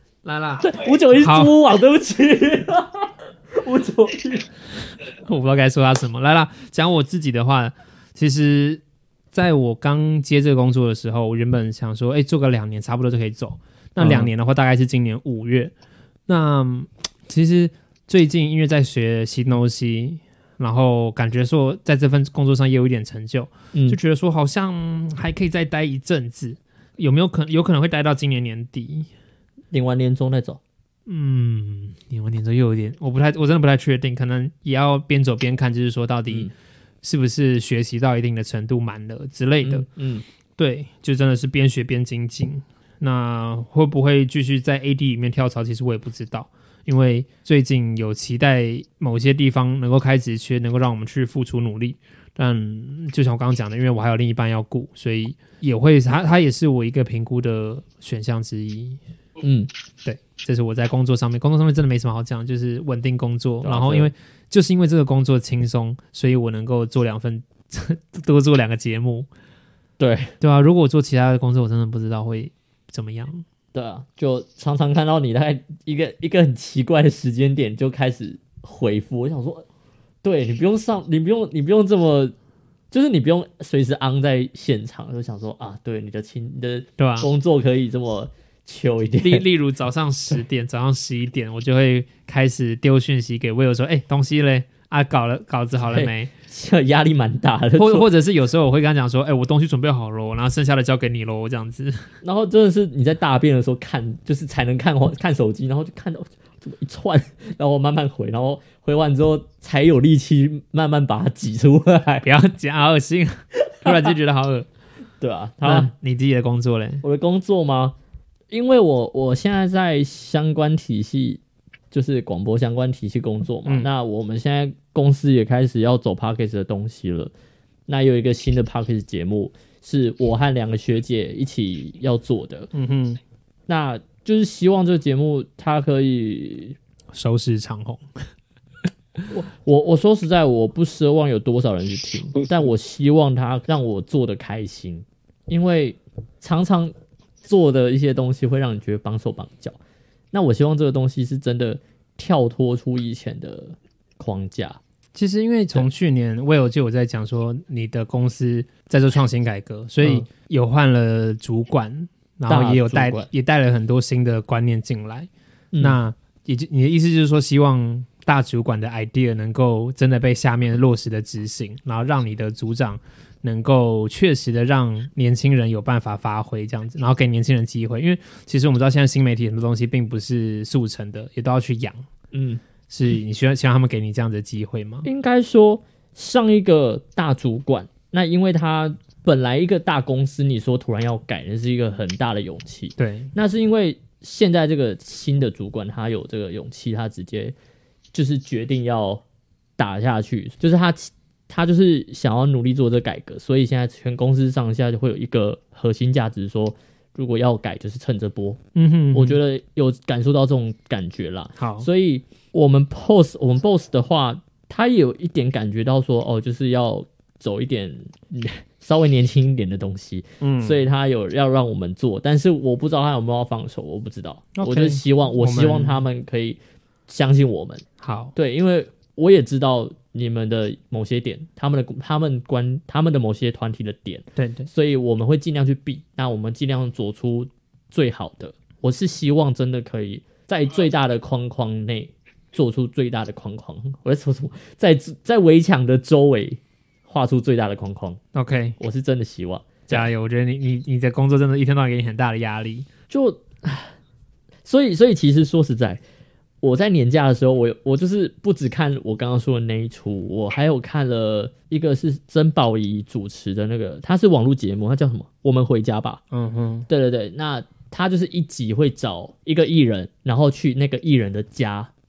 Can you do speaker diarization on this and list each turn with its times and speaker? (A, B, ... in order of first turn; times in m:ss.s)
0:00.2-0:01.6 A
0:00.6-0:04.5 B
0:05.2-0:08.8 A
0:09.3-0:15.7 A
0:14.0-0:14.3 B
0:16.3-0:29.1 A
0:23.7-0:24.0 B
0:29.7-0:30.6 B
0:31.1-0:36.5 A
0:37.0-0:39.9 A
0:39.6-0:40.2 B
0:40.6-0:59.0 A
0:59.4-0:59.7 B
1:00.0-1:09.3 A
1:03.6-1:04.1 B
1:10.0-1:10.4 B
1:10.4-1:13.4 A
1:13.7-1:19.6 B
1:20.2-1:22.3 B
1:22.9-1:29.4 B
1:27.0-1:27.3 A
1:29.2-1:36.3 A
1:35.9-1:38.1 B
1:37.8-1:42.1 A
1:42.2-1:52.3 B
1:52.2-1:54.7 A
1:53.8-1:54.1 B
1:55.2-1:55.9 B
1:55.6-1:57.0 A
1:57.0-1:58.0 B
1:58.5-2:07.3 B
2:07.9-2:12.7 B
2:12.7-2:13.2 A
2:13.7-2:16.8 B
2:17.1-2:18.0 A
2:19.3-2:29.8 B
2:30.3-2:34.8 B
2:35.1-3:02.0 A
2:40.0-2:40.3 B
2:42.5-2:43.3 B
2:45.7-2:46.0 B
3:02.3-3:02.6 B
3:02.9-3:05.1 A
3:05.0-3:17.5 B
3:13.0-3:13.3 A
3:18.1-3:19.2 B
3:19.8-3:28.6 B
3:28.8-3:29.4 A
3:29.1-3:47.8 B
3:31.6-3:31.9 A
3:40.4-3:40.8 A
3:44.6-3:46.0 A
3:48.0-3:48.3 A
3:48.4-4:08.2 B
3:54.4-3:54.7 A
4:08.3-4:08.8 A
4:08.8-4:10.1 B
4:09.9-4:12.9 A
4:13.1-4:13.9 B
4:14.6-4:16.0 B
4:16.6-4:26.2 B
4:26.3-4:26.9 A
4:26.9-4:31.9 B